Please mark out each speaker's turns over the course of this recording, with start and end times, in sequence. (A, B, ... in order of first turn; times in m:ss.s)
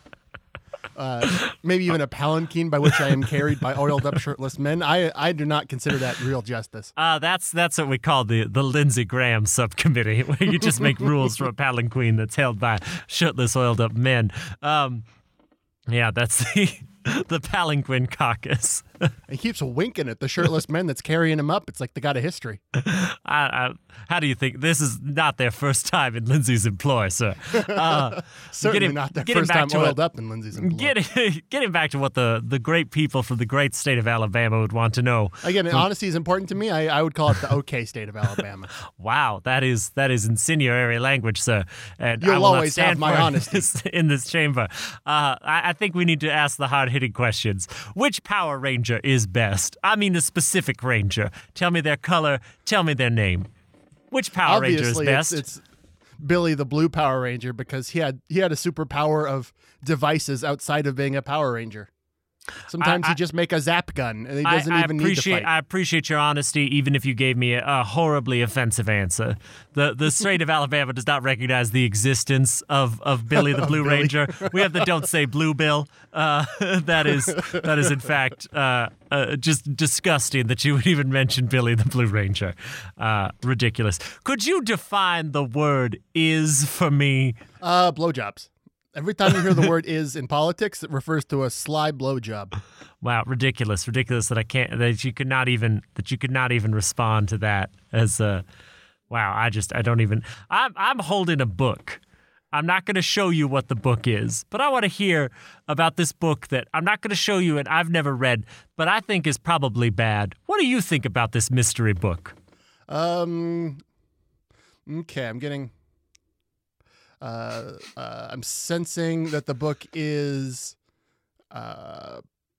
0:01.0-0:06.9 A
0:07.0-0:15.0 B
0:15.9-0:19.1 B
0:19.3-0:22.6 A
0:22.7-0:30.0 B
0:27.5-0:30.9 A
0:30.6-0:35.9 B
0:35.4-0:38.7 A
0:38.9-0:53.5 B
0:42.2-0:43.7 A
0:54.1-0:55.4 B
0:54.4-0:55.6 A
0:56.2-1:01.9 A
1:02.7-1:05.5 A
1:02.8-1:03.2 B
1:04.4-1:27.4 B
1:13.4-1:14.8 A
1:17.4-1:17.6 A
1:27.6-1:32.6 A
1:33.0-1:38.4 B
1:39.1-1:42.0 B
1:42.5-1:52.4 B
1:52.9-1:53.8 A
1:54.9-1:55.7 A
1:57.2-2:00.8 A
2:01.5-2:02.2 A